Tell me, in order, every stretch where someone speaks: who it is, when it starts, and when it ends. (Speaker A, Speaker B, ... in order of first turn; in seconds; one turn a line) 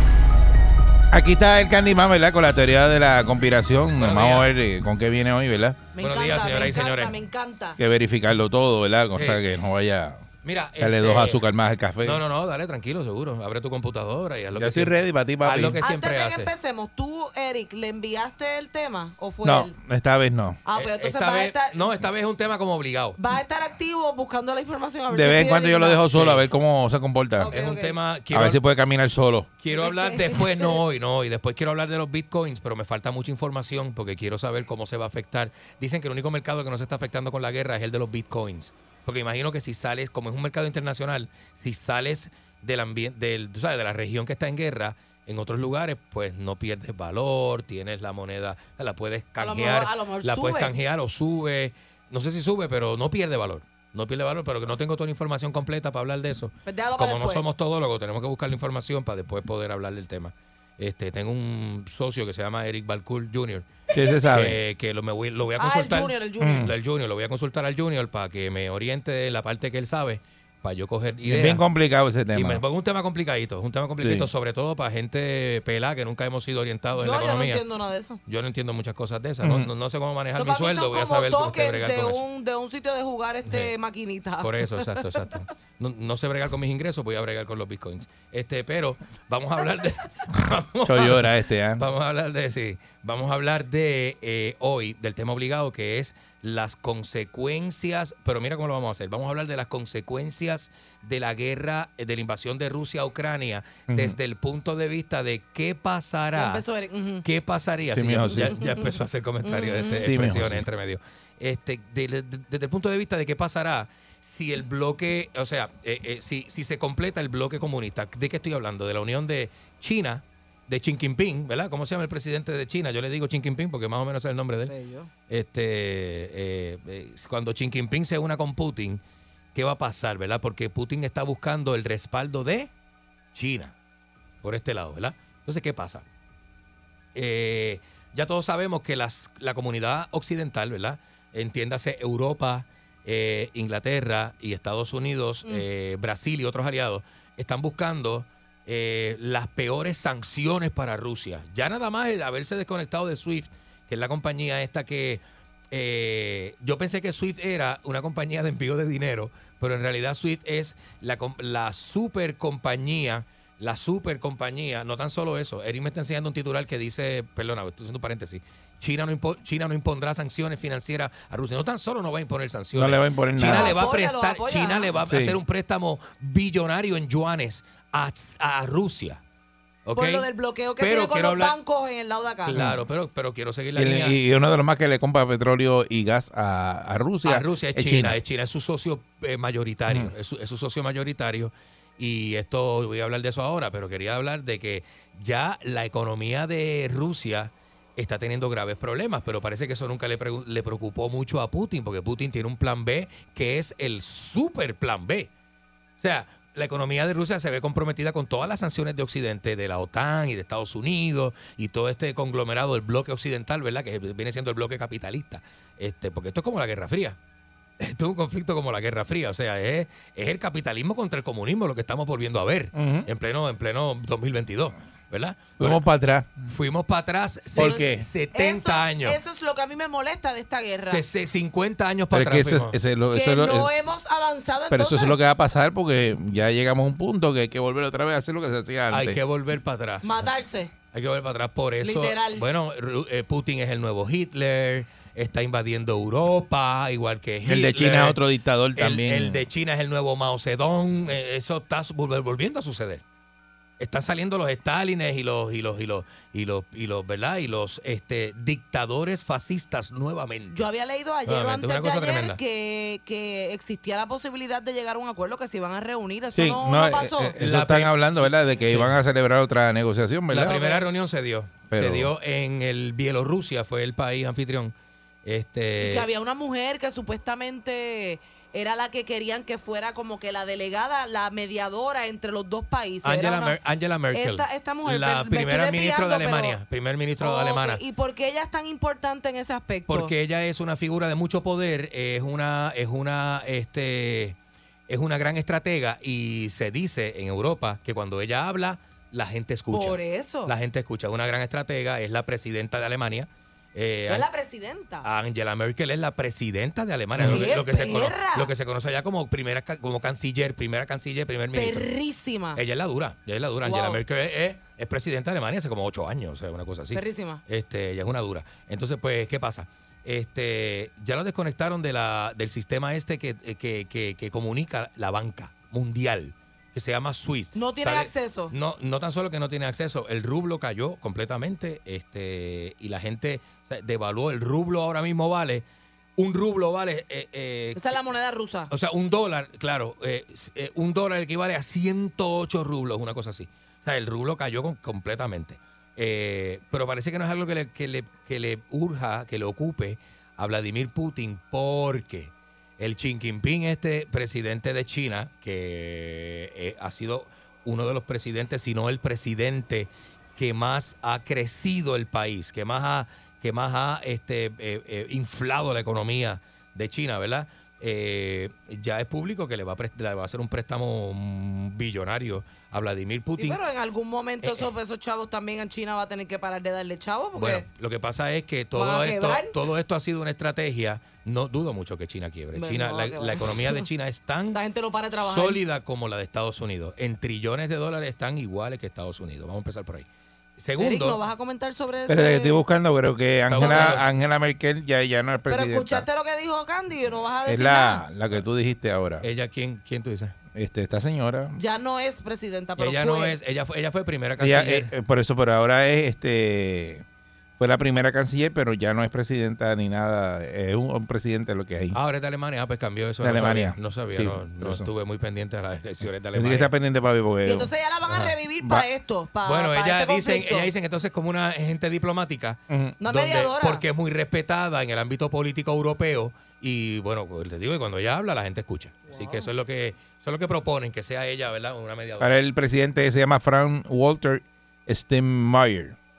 Speaker A: 1.1-5.8
Speaker B: 4.0-4.5
Speaker C: 6.0-7.8
Speaker B: 6.0-7.1
Speaker A: 7.8-10.2
Speaker B: 9.1-9.4
Speaker B: 10.4-11.4
Speaker A: 10.8-12.2
Speaker B: 12.0-16.5
Speaker A: 14.6-15.8
Speaker C: 15.8-19.7
Speaker A: 19.4-20.6
Speaker C: 20.7-21.9
Speaker B: 20.7-23.2
Speaker C: 23.2-26.1
Speaker A: 25.1-27.5
Speaker B: 26.1-26.4
Speaker C: 27.4-27.9
Speaker B: 27.5-28.6
Speaker A: 28.3-29.5
Speaker B: 29.6-63.6
Speaker C: 29.7-30.7
Speaker C: 49.4-50.7
Speaker C: 56.6-57.4
Speaker A: 63.9-64.6
Speaker B: 64.3-71.6
Speaker C: 65.6-66.7
Speaker A: 66.4-66.7
Speaker A: 71.2-72.6
Speaker B: 72.3-77.6
Speaker A: 74.0-74.3
Speaker C: 77.0-78.2
Speaker B: 78.3-82.2
Speaker A: 79.4-79.7
Speaker C: 80.4-85.0
Speaker B: 84.4-106.6
Speaker A: 90.8-91.9
Speaker A: 103.9-104.2
Speaker C: 106.4-107.2
Speaker B: 107.2-124.7
Speaker A: 107.9-108.6
Speaker C: 108.5-108.9
Speaker C: 109.4-110.0
Speaker A: 110.0-110.7
Speaker C: 124.7-125.1
Speaker B: 125.3-129.0
Speaker B: 129.6-132.7
Speaker B: 133.3-133.7
Speaker B: 134.4-136.0
Speaker B: 137.2-179.2
Speaker A: 172.7-173.7
Speaker C: 173.5-174.9
Speaker A: 175.1-175.4
Speaker B: 179.8-180.3
Speaker C: 179.9-182.6
Speaker B: 180.8-181.6
Speaker B: 182.4-184.2
Speaker A: 183.7-188.2
Speaker B: 187.2-205.3
Speaker B: 206.0-217.2
Speaker B: 217.8-225.8
Speaker A: 222.7-223.1
Speaker A: 225.6-226.4
Speaker B: 226.5-229.2
Speaker A: 227.6-228.1
Speaker C: 227.6-231.0
Speaker B: 230.8-232.8
Speaker A: 232.1-233.7
Speaker C: 233.1-235.2
Speaker A: 234.7-239.2
Speaker B: 238.9-240.2
Speaker C: 240.0-240.7
Speaker B: 240.9-248.2
Speaker C: 241.8-242.4
Speaker A: 247.4-249.4
Speaker B: 248.8-253.0
Speaker B: 253.8-260.6
Speaker C: 260.5-267.4
Speaker B: 261.3-262.4
Speaker A: 266.3-270.7
Speaker B: 267.4-268.9
Speaker B: 270.3-274.7
Speaker C: 270.5-270.8
Speaker A: 271.7-272.1
Speaker B: 275.2-276.1
Speaker C: 275.8-283.6
Speaker B: 283.0-287.8
Speaker C: 284.1-286.6
Speaker C: 287.2-290.1
Speaker B: 289.9-294.4
Speaker B: 294.9-304.3
Speaker C: 299.7-300.5
Speaker C: 304.1-305.1
Speaker B: 305.0-311.9
Speaker A: 307.1-307.5
Speaker C: 307.2-308.5
Speaker C: 311.5-312.6
Speaker B: 312.6-335.6
Speaker C: 313.6-314.0
Speaker C: 316.9-317.4
Speaker C: 327.5-328.5
Speaker B: 336.2-338.0
Speaker C: 337.8-338.7
Speaker B: 338.7-373.6
Speaker C: 373.4-377.6
Speaker B: 377.4-384.6
Speaker C: 378.7-379.5
Speaker C: 382.6-383.8
Speaker C: 384.5-385.6
Speaker B: 385.1-390.1
Speaker B: 390.6-391.2
Speaker C: 390.8-392.6
Speaker A: 392.1-396.1
Speaker B: 393.5-394.1
Speaker C: 393.6-394.0
Speaker C: 395.5-398.0
Speaker A: 397.4-399.2
Speaker B: 399.2-400.4
Speaker A: 400.5-401.6
Speaker C: 401.6-403.3
Speaker B: 402.8-404.9
Speaker A: 404.4-407.0
Speaker A: 407.6-412.0
Speaker B: 411.9-416.7
Speaker A: 413.2-414.9
Speaker A: 416.3-417.7
Speaker C: 417.4-420.7
Speaker B: 418.1-418.4
Speaker B: 419.4-432.3
Speaker A: 422.7-422.9
Speaker C: 423.0-423.9
Speaker C: 429.1-429.5
Speaker A: 432.2-435.9